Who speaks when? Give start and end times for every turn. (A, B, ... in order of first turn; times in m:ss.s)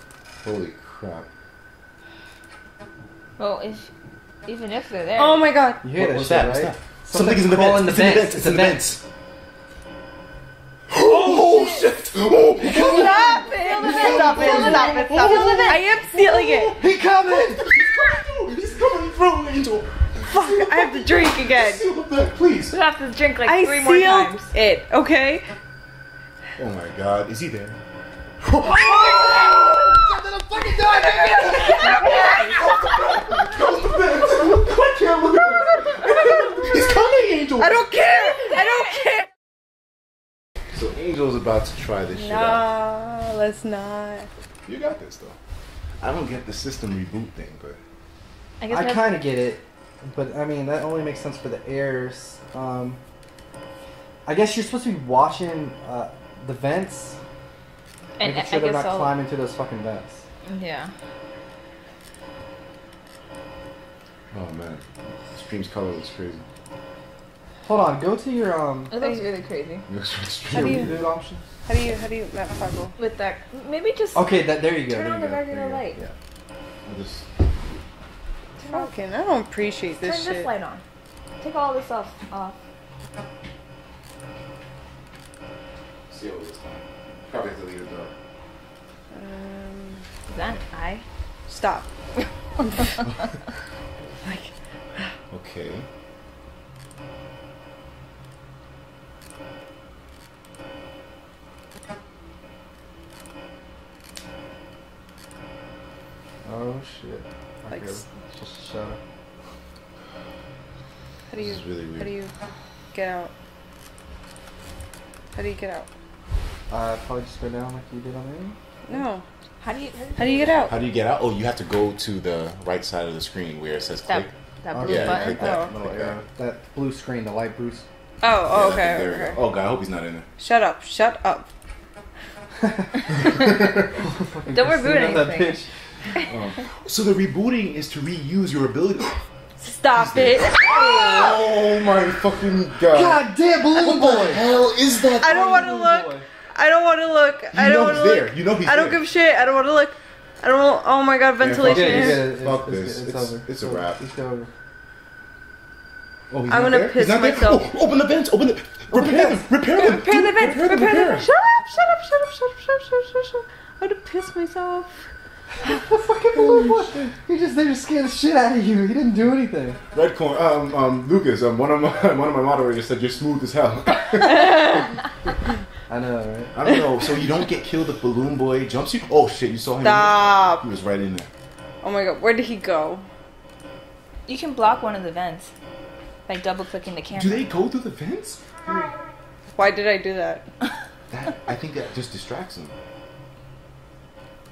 0:00.4-0:01.3 A
0:03.4-0:03.9 B
0:04.5-0:05.5 B
0:05.2-0:05.8 C
0:05.8-0:08.9 D
0:06.0-0:09.0 A
0:10.9-0:16.8 A
0:11.1-0:11.8 D
0:12.6-0:14.9 D
0:12.7-0:15.9 B
0:12.8-0:16.8 C
0:16.8-0:17.6 D
0:17.4-0:22.8 A
0:20.3-0:21.8 C
0:22.7-0:24.5 B
0:23.4-0:25.5 C
0:26.6-0:27.8 A
0:28.4-0:30.0 A
0:28.7-0:29.6 C
0:29.8-0:31.6 D
0:30.8-0:32.9 C
0:31.0-0:32.7 B
0:31.2-0:37.8 A
0:37.6-0:39.2 C
0:38.2-0:38.6 B
0:40.8-0:42.6 A
0:42.1-0:44.3 C
0:44.7-0:45.4 A
0:46.0-0:47.8 A
0:48.6-0:49.2 B
0:48.7-0:53.0 D
0:54.3-0:57.2 D
0:58.2-0:59.2 B
0:58.2-1:00.2 D
1:00.5-1:00.9 B
1:04.3-1:06.4 A
1:07.6-1:09.0 D
1:08.9-1:09.8 B
1:09.9-1:11.0 A
1:10.5-1:11.5 D
1:10.5-1:10.9 C
1:11.6-1:13.0 C
1:13.0-1:16.0 B
1:14.1-1:16.1 D
1:16.8-1:17.3 A
1:18.6-1:19.0 B
1:18.6-1:20.5 C
1:20.0-1:20.8 B
1:21.4-1:22.6 B
1:26.1-1:28.1 A
1:29.1-1:30.1 C
1:30.3-1:31.0 B
1:31.5-1:31.9 C
1:32.7-1:33.0 B
1:34.2-1:35.1 C
1:35.3-1:35.9 A
1:46.4-1:49.0 D
1:47.7-1:48.0 C
1:51.3-1:52.3 C
1:51.4-1:52.1 A
1:52.9-1:53.3 C
1:55.3-1:55.9 C
1:56.7-1:59.0 D
1:58.9-1:59.2 C
1:59.6-2:00.8 B
2:00.2-2:00.7 C
2:00.7-2:06.2 A
2:04.1-2:05.4 B
2:04.7-2:07.8 D
2:05.4-2:05.7 C
2:08.2-2:09.4 C
2:08.5-2:10.3 A
2:10.4-2:11.5 C
2:12.6-2:15.7 D
2:14.5-2:15.6 B
2:16.3-2:19.2 A
2:19.6-2:21.4 C
2:19.9-2:25.5 A
2:22.9-2:24.4 D
2:25.2-2:32.3 C
2:25.2-2:26.2 D
2:27.5-2:29.0 A
2:31.4-2:34.0 A
2:31.6-2:34.5 D
2:36.3-2:41.3 A
2:36.5-2:37.7 C
2:38.9-2:39.5 D
2:39.8-2:41.2 B
2:40.4-2:45.1 C
2:45.6-2:49.8 D
2:46.4-2:47.1 A
2:49.9-2:54.8 A
2:54.5-2:54.8 C
2:55.9-2:56.5 D
2:56.5-3:01.3 A
2:59.8-3:00.6 C
3:01.8-3:03.0 C
3:04.3-3:05.5 B
3:06.3-3:07.5 B
3:07.1-3:08.9 A
3:09.6-3:10.4 C
3:11.1-3:12.8 A